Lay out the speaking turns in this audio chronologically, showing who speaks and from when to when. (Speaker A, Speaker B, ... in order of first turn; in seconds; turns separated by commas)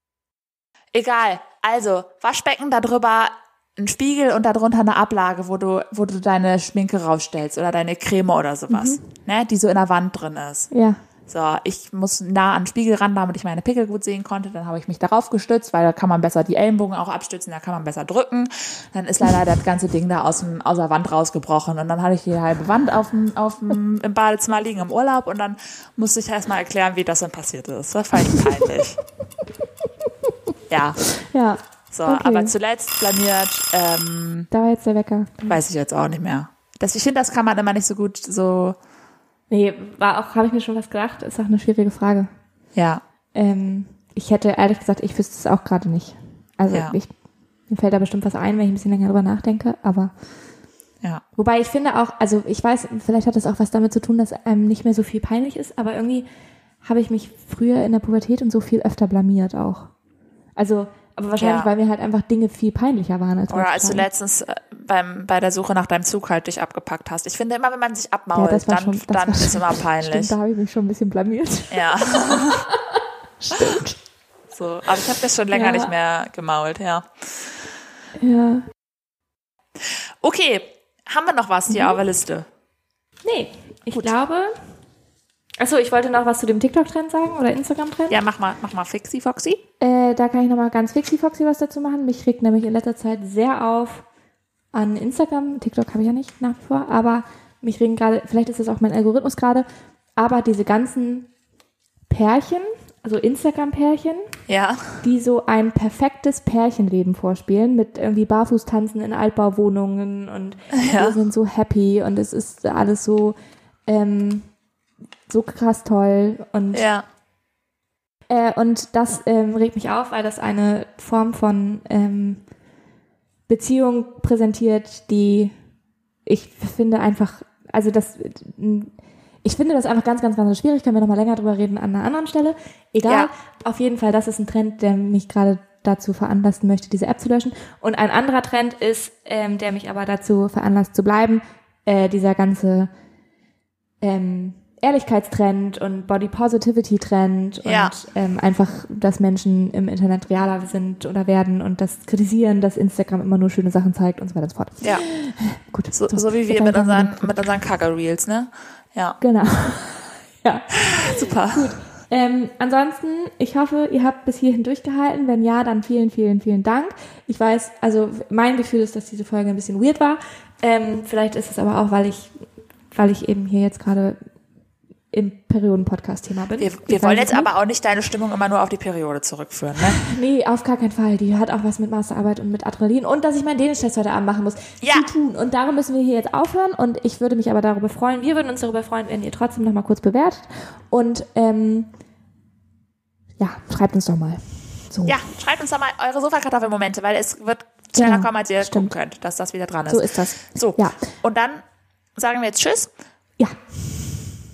Speaker A: 0.9-10.7, Speaker B: 8.7-9.0, Speaker B: 10.7-11.0, Speaker A: 11.3-29.0, Speaker A: 30.7-31.0, Speaker B: 31.2-32.5, Speaker A: 31.9-34.5, Speaker B: 34.5-35.6, Speaker A: 35.5-38.8, Speaker B: 39.5-42.3, Speaker A: 42.7-43.0, Speaker B: 43.3-47.1, Speaker A: 46.7-46.9, Speaker B: 47.7-50.1, Speaker B: 51.4-56.2, Speaker B: 56.8-59.9, Speaker B: 60.5-64.0, Speaker A: 61.4-61.7, Speaker A: 63.5-70.3, Speaker B: 68.3-72.8, Speaker A: 71.7-72.7, Speaker B: 73.4-74.0, Speaker A: 74.5-77.3, Speaker B: 75.5-75.9, Speaker B: 78.2-78.7, Speaker A: 80.2-82.5, Speaker B: 81.7-81.9, Speaker B: 83.2-84.5, Speaker B: 85.6-88.2, Speaker A: 88.1-89.6, Speaker B: 89.8-94.0, Speaker B: 94.7-99.7, Speaker B: 100.2-101.3, Speaker B: 102.1-104.3, Speaker A: 104.5-104.9, Speaker B: 105.0-113.3, Speaker A: 110.7-111.2, Speaker B: 113.9-114.5, Speaker B: 115.3-116.9, Speaker A: 116.7-117.0, Speaker B: 118.3-122.4, Speaker B: 123.5-125.5, Speaker B: 126.2-142.9, Speaker B: 144.0-157.4, Speaker A: 147.6-147.9, Speaker A: 155.9-159.2, Speaker B: 159.2-172.3, Speaker A: 160.8-161.7, Speaker B: 172.9-174.2, Speaker B: 175.1-177.5, Speaker A: 176.6-180.0, Speaker B: 179.9-191.9, Speaker A: 184.8-185.1, Speaker B: 193.4-195.2, Speaker A: 195.1-201.6, Speaker B: 197.9-198.9, Speaker B: 199.9-201.1, Speaker A: 202.2-202.9, Speaker B: 203.4-204.3